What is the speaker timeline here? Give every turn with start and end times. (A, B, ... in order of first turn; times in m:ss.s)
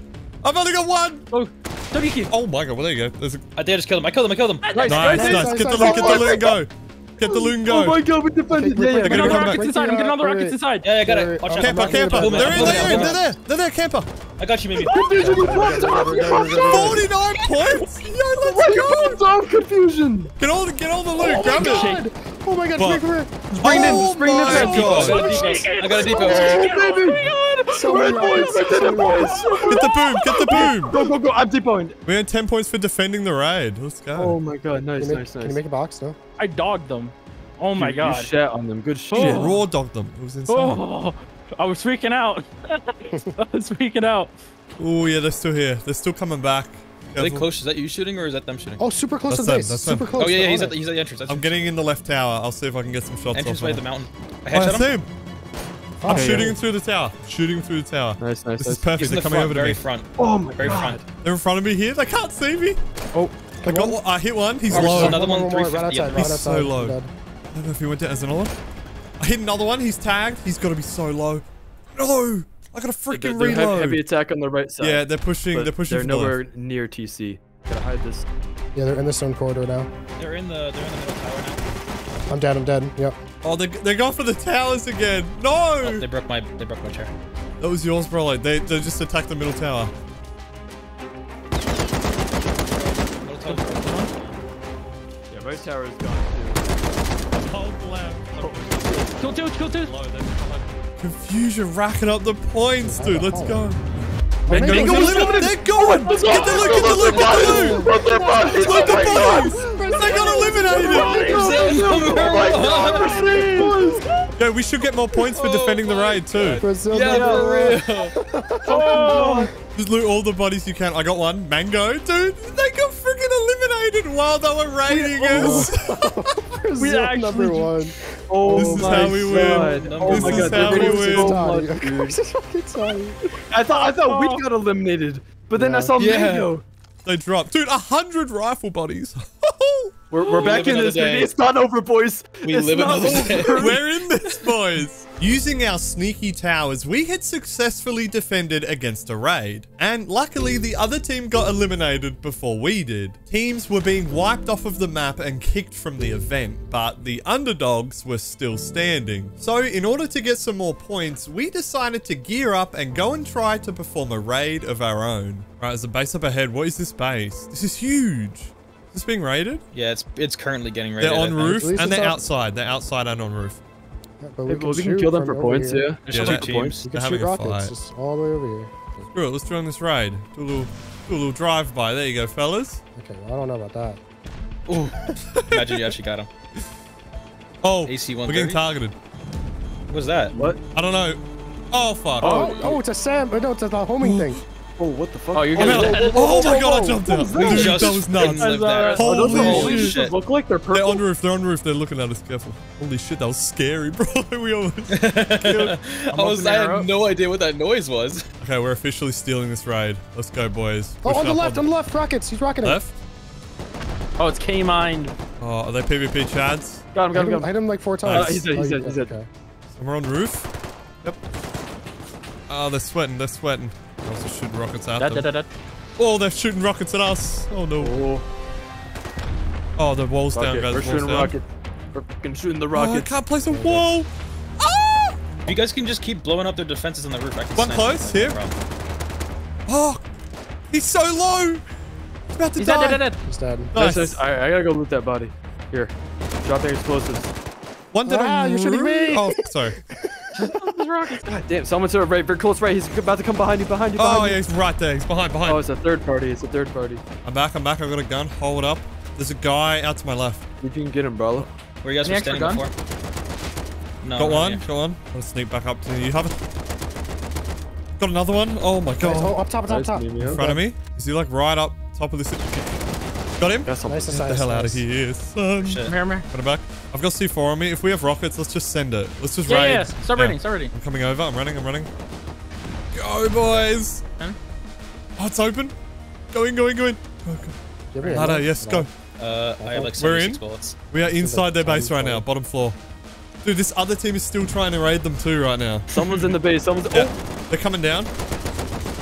0:00.4-0:01.2 A
0:01.3-0:02.3 B
0:02.3-0:03.4 A
0:03.6-0:04.9 C
0:04.7-0:05.4 B
0:04.7-0:06.6 D
0:04.9-0:08.0 A
0:05.0-0:06.5 E
0:07.2-0:09.6 D
0:08.5-0:13.3 E
0:09.0-0:09.6 A
0:09.0-0:11.0 B
0:10.8-0:13.2 C
0:11.6-0:14.1 A
0:14.4-0:15.6 C
0:14.8-0:17.1 D
0:14.9-0:17.1 E
0:16.5-0:19.2 A
0:17.4-0:17.9 B
0:18.4-0:20.3 D
0:20.4-0:21.9 A
0:21.2-0:25.6 E
0:21.3-0:22.0 B
0:22.8-0:23.0 A
0:23.5-0:32.0 D
0:23.6-0:25.3 A
0:24.4-0:28.5 B
0:24.5-0:26.9 C
0:27.7-0:29.7 E
0:29.7-0:31.0 A
0:32.0-0:34.4 A
0:34.2-0:35.6 D
0:35.0-0:36.2 E
0:36.4-0:38.3 B
0:37.8-0:39.5 D
0:39.1-0:39.6 B
0:39.2-0:40.8 A
0:40.5-0:44.3 B
0:44.8-0:47.5 A
0:47.2-0:48.8 C
0:48.8-0:50.8 E
0:49.3-0:50.2 A
0:50.2-0:51.5 C
0:51.3-0:53.8 A
0:53.3-0:54.9 C
0:54.5-0:55.1 A
0:56.0-0:56.6 E
0:56.0-0:59.8 A
0:56.1-0:56.6 D
0:58.2-0:58.9 D
0:59.0-1:01.0 C
1:00.2-1:01.0 D
1:00.6-1:02.8 A
1:03.6-1:05.2 A
1:03.6-1:04.0 E
1:04.6-1:07.1 E
1:04.7-1:06.4 C
1:06.1-1:07.0 A
1:07.5-1:08.6 A
1:09.2-1:14.0 A
1:13.1-1:18.3 D
1:14.8-1:16.4 A
1:18.8-1:19.9 E
1:20.2-1:21.6 C
1:22.3-1:23.2 E
1:23.4-1:26.1 A
1:25.8-1:27.1 C
1:27.6-1:29.9 A
1:32.9-1:34.1 C
1:33.4-1:34.1 B
1:35.3-1:36.6 D
1:37.3-1:43.8 A
1:38.4-1:39.1 D
1:39.2-1:39.9 B
1:42.8-1:43.6 E
1:44.5-1:45.6 E
1:44.5-1:50.1 D
1:44.5-1:47.9 A
1:44.8-1:45.4 B
1:45.9-1:47.0 B
1:46.7-1:54.0 E
1:46.9-1:47.9 C
1:48.5-1:51.3 A
1:50.7-1:54.0 D
1:51.0-1:51.6 B
1:51.2-1:53.4 C
1:54.4-1:56.6 A
1:55.3-1:58.1 C
1:56.5-1:57.8 D
1:56.6-1:59.5 E
1:57.1-1:57.5 B
1:58.7-1:59.5 B
1:58.7-1:59.5 D
1:59.8-2:06.3 A
2:04.9-2:09.6 E
2:05.3-2:05.7 D
2:06.8-2:07.7 B
2:08.3-2:12.2 D
2:08.5-2:11.5 A
2:09.6-2:10.6 C
2:10.3-2:13.2 E
2:13.5-2:16.6 D
2:14.0-2:14.4 B
2:15.6-2:16.0 E
2:16.0-2:16.5 C
2:17.0-2:20.0 A
2:20.1-2:23.8 D
2:20.2-2:21.3 C
2:22.4-2:23.8 C
2:23.0-2:49.6 A
2:49.7-2:51.6 C
2:51.0-2:53.6 A
2:51.4-2:52.2 E
2:54.2-2:56.0 E
2:54.5-2:56.8 D
2:56.0-2:56.9 C
2:56.1-2:57.7 A
2:56.8-2:58.7 E
2:59.1-3:02.8 A
3:03.0-3:04.0 E
3:04.7-3:06.3 C
3:05.3-3:05.8 A
3:07.6-3:09.0 A
3:07.9-3:08.6 C
3:09.9-3:10.4 C
3:10.4-3:10.6 D
3:10.7-3:12.5 A
3:12.2-3:12.8 D
3:12.2-3:14.4 E
3:14.0-3:14.4 A
3:14.8-3:21.0 D
3:15.3-3:16.6 B
3:15.6-3:20.0 A
3:17.4-3:20.2 C
3:18.4-3:20.0 B
3:20.7-3:25.8 A
3:24.9-3:28.3 C
3:26.1-3:26.9 B
3:28.4-3:31.7 A
3:31.0-3:32.8 E
3:32.6-3:33.0 A
3:34.2-3:35.2 B
3:35.4-3:36.8 A
3:36.9-3:39.1 D
3:37.1-3:39.3 E
3:38.0-3:38.4 A
3:39.7-3:40.5 A
3:42.5-3:45.3 A
3:45.0-3:45.5 B
3:46.0-3:48.0 A
3:47.8-3:48.2 D
3:49.8-3:51.4 A
3:50.4-3:53.1 D
3:52.7-3:55.2 A
3:53.5-3:53.9 E
3:55.5-3:58.6 C
3:57.6-3:58.4 A
3:59.7-4:00.0 A
4:00.7-4:01.6 A
4:02.3-4:03.0 A
4:02.6-4:03.2 B
4:03.2-4:03.7 E
4:03.7-4:04.2 A
4:03.8-4:07.3 D
4:07.9-4:09.8 A
4:08.0-4:10.5 E
4:10.4-4:11.3 B
4:11.2-4:14.4 D
4:14.0-4:15.6 A
4:15.4-4:17.0 D
4:17.2-4:20.5 A
4:20.6-4:21.5 D
4:21.8-4:22.7 C
4:22.0-4:22.7 B
4:24.0-4:24.6 C
4:24.2-4:26.4 A
4:28.0-4:29.4 A
4:29.0-4:30.6 E
4:29.7-4:30.4 D
4:30.2-4:32.7 A
4:33.4-4:41.9 A
4:33.7-4:34.2 D
4:33.9-4:34.8 E
4:35.6-4:36.0 C
4:35.8-4:36.3 B
4:39.5-4:40.7 B
4:42.9-4:44.0 A
4:45.2-4:45.7 A
4:46.3-4:48.9 A
4:47.9-4:48.9 E
4:49.2-4:50.8 C
4:49.6-4:50.0 E
4:50.0-4:52.8 A
4:51.1-4:52.2 E
4:53.4-4:56.3 A
4:55.9-4:57.1 D
4:56.9-4:58.1 A